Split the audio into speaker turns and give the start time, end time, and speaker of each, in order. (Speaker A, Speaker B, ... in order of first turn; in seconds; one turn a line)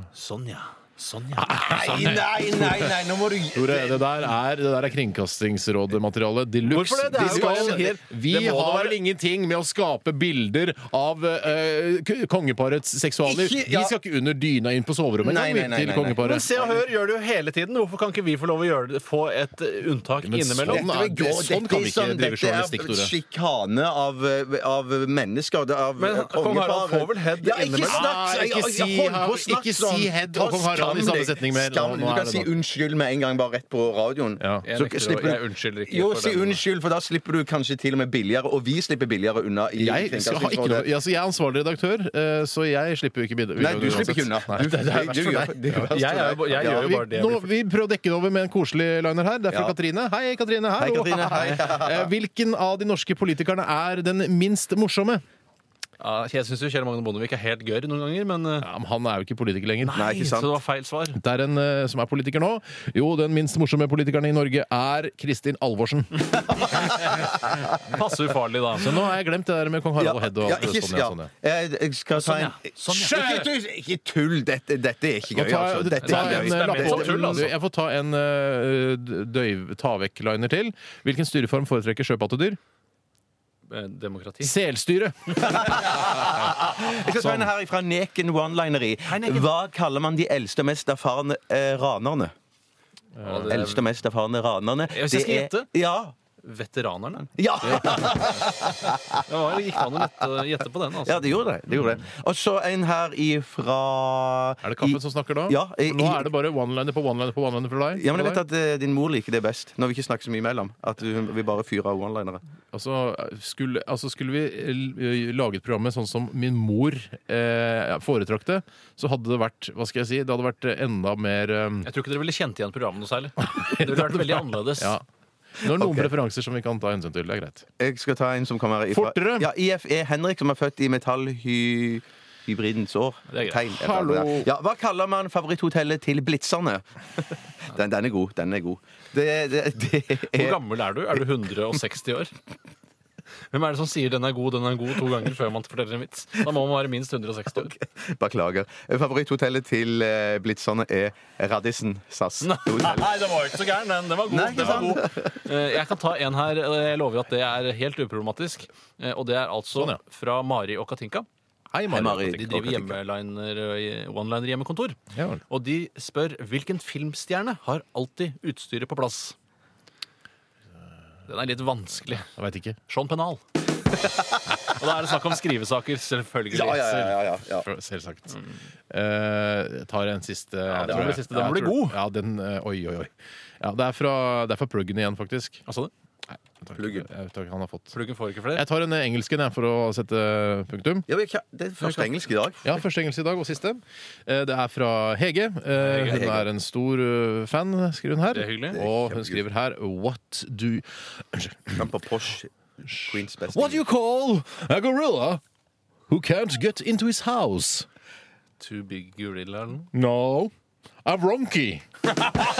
Speaker A: 0.1-2.4
Speaker B: 1.4-2.9
Speaker C: 1.7-4.0
Speaker B: 3.5-16.5
Speaker A: 6.6-8.1
Speaker C: 7.2-8.9
Speaker C: 13.2-13.9
Speaker C: 15.2-16.8
Speaker A: 16.2-20.9
Speaker B: 20.2-23.1
Speaker C: 20.7-40.9
Speaker A: 26.0-28.0
Speaker B: 27.8-32.5
Speaker B: 34.4-34.6
Speaker A: 34.6-36.6
Speaker B: 39.8-55.2
Speaker C: 43.6-46.9
Speaker A: 45.9-47.5
Speaker C: 49.5-49.7
Speaker C: 50.8-52.1
Speaker A: 56.0-58.7
Speaker B: 58.6-60.0
Speaker A: 59.8-61.2
Speaker C: 59.9-60.6
Speaker B: 61.1-66.4
Speaker C: 66.5-67.4
Speaker A: 67.8-68.9
Speaker B: 68.8-71.3
Speaker C: 70.0-77.5
Speaker A: 72.1-73.5
Speaker B: 72.9-73.5
Speaker B: 75.3-82.6
Speaker A: 76.0-77.5
Speaker A: 83.7-84.5
Speaker B: 84.4-87.5
Speaker C: 85.5-92.3
Speaker A: 89.1-89.5
Speaker B: 93.2-93.5
Speaker A: 93.2-93.8
Speaker C: 93.5-96.1
Speaker A: 94.9-95.7
Speaker A: 96.4-98.2
Speaker C: 97.3-99.2
Speaker B: 97.6-98.4
Speaker A: 99.2-101.3
Speaker C: 101.0-106.3
Speaker B: 104.6-108.4
Speaker C: 107.9-112.4
Speaker B: 112.7-121.9
Speaker A: 121.8-124.9
Speaker B: 123.4-125.0
Speaker B: 125.6-127.6
Speaker C: 125.6-126.1
Speaker C: 127.8-140.6
Speaker B: 128.9-129.5
Speaker A: 133.3-133.6
Speaker B: 133.7-134.5
Speaker A: 140.3-142.3
Speaker A: 143.5-147.7
Speaker C: 147.6-153.2
Speaker A: 152.4-161.2
Speaker C: 154.3-155.4
Speaker B: 161.7-162.4
Speaker C: 161.9-163.0
Speaker A: 162.1-165.0
Speaker B: 165.1-165.4
Speaker A: 165.5-169.3
Speaker A: 171.3-172.3
Speaker B: 172.2-172.8
Speaker A: 172.9-173.4
Speaker A: 174.6-177.2
Speaker C: 176.5-177.7
Speaker B: 177.5-178.4
Speaker B: 178.9-185.6
Speaker A: 180.7-182.0
Speaker C: 180.8-181.2
Speaker B: 186.3-187.9
Speaker C: 186.8-187.1
Speaker A: 187.9-188.6
Speaker B: 188.5-191.1
Speaker C: 191.1-192.8
Speaker A: 191.8-192.1
Speaker B: 192.6-201.9
Speaker A: 195.7-196.2
Speaker C: 196.0-196.5
Speaker A: 198.3-198.8
Speaker C: 198.7-199.4
Speaker C: 201.8-203.8
Speaker B: 203.1-205.4
Speaker B: 206.1-207.9
Speaker A: 208.6-209.9
Speaker B: 209.9-210.5
Speaker B: 211.0-211.8